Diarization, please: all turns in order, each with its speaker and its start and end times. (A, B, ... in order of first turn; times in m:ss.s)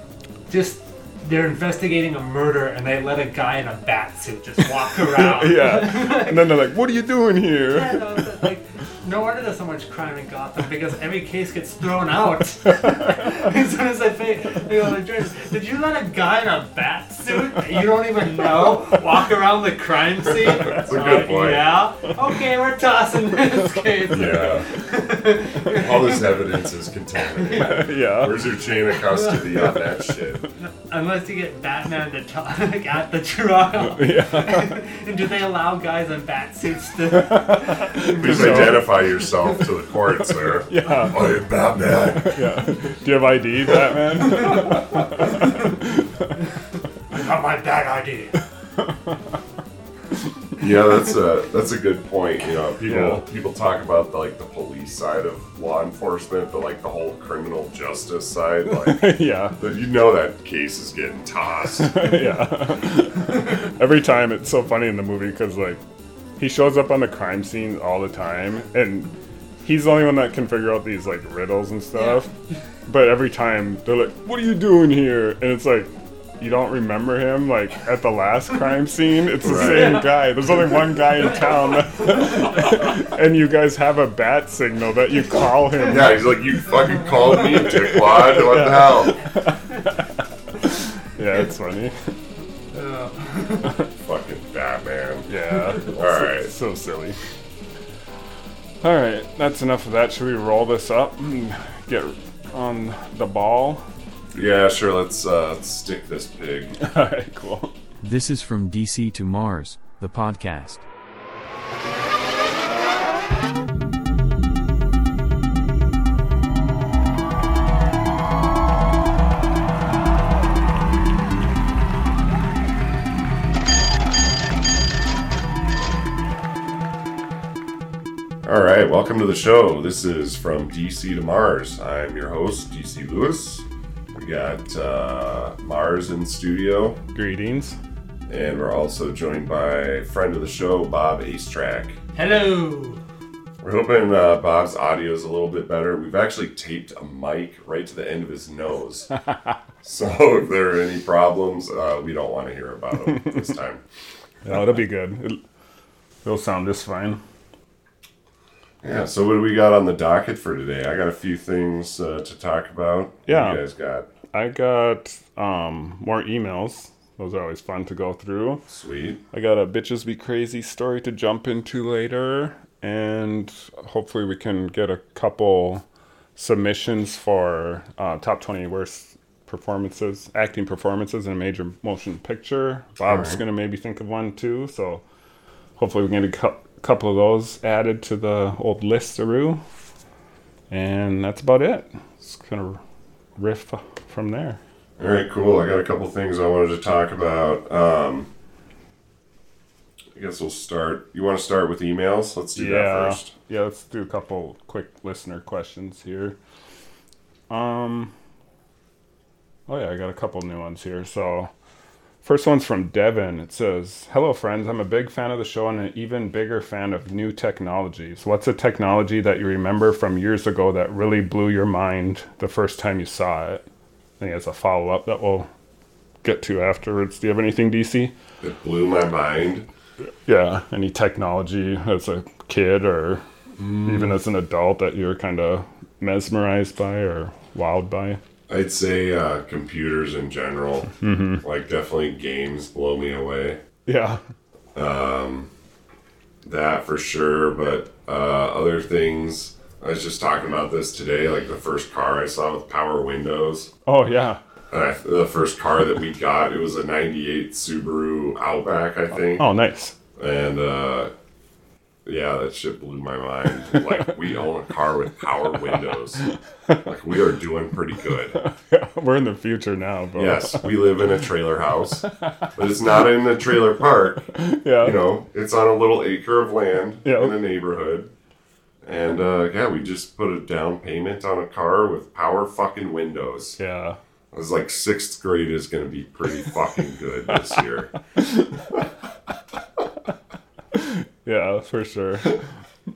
0:00.5-0:06.5 A
0:05.0-0:08.2 B
0:07.7-0:26.3 A
0:12.6-0:13.5 B
0:20.4-0:21.7 C
0:24.1-0:24.7 C
0:25.6-0:30.5 C
0:27.3-0:27.7 A
0:27.6-0:28.4 B
0:29.1-0:29.8 A
0:30.6-0:38.8 A
0:33.8-0:34.8 B
0:37.1-0:39.1 B
0:38.2-0:43.0 C
0:40.7-0:41.3 B
0:40.8-0:41.1 A
0:42.1-0:46.4 B
0:45.3-0:45.6 A
0:47.1-0:48.4 A
0:50.6-1:02.2 C
0:52.8-0:53.2 B
0:58.7-0:59.6 B
1:01.8-1:05.8 B
1:06.4-1:12.3 B
1:12.9-1:26.3 B
1:19.4-1:20.1 C
1:19.6-1:19.9 A
1:22.1-1:22.5 A
1:25.8-1:29.2 C
1:27.4-1:32.1 B
1:32.7-1:33.7 A
1:33.9-1:36.5 C
1:35.3-1:37.2 B
1:38.8-1:43.8 B
1:44.3-1:46.8 C
1:46.8-1:47.7 B
1:48.0-1:50.8 D
2:08.4-2:17.0 C
2:17.1-2:17.8 B
2:18.3-2:22.0 C
2:22.2-2:23.0 A
2:23.6-2:29.1 C
2:29.8-2:33.8 C
2:34.4-2:35.4 B
2:36.2-2:37.2 B
2:38.8-2:44.1 C
2:43.3-2:43.6 B
2:44.3-2:48.7 B
2:48.7-2:49.2 C
2:49.3-2:55.8 B
2:56.4-3:05.0 B
3:03.0-3:03.4 C
3:05.8-3:09.6 B
3:10.7-3:12.8 B
3:13.4-3:14.6 B
3:15.0-3:18.3 C
3:20.2-3:23.3 C
3:22.6-3:26.4 B
3:27.5-3:28.1 B
3:29.7-3:31.5 B
3:32.2-3:43.6 B
3:44.2-3:45.5 B
3:46.2-3:48.1 B
3:48.4-3:49.7 C
3:50.3-3:53.2 B
3:53.6-3:54.2 C
3:53.8-3:58.2 B
3:58.5-4:03.6 C
4:01.0-4:01.4 B
4:03.9-4:04.2 B
4:04.8-4:05.5 C
4:06.4-4:13.7 C
4:13.9-4:14.4 B
4:14.7-4:19.5 C
4:19.2-4:20.0 B
4:20.2-4:21.1 C
4:22.0-4:26.2 C
4:26.8-4:28.4 C
4:28.3-4:30.9 B
4:30.2-4:38.1 C
4:32.2-4:32.5 B
4:34.3-4:35.0 B
4:37.0-4:37.4 B
4:38.8-4:43.6 C
4:43.6-4:44.0 B
4:44.3-4:47.9 C
4:48.2-4:48.5 B
4:50.7-4:52.4 B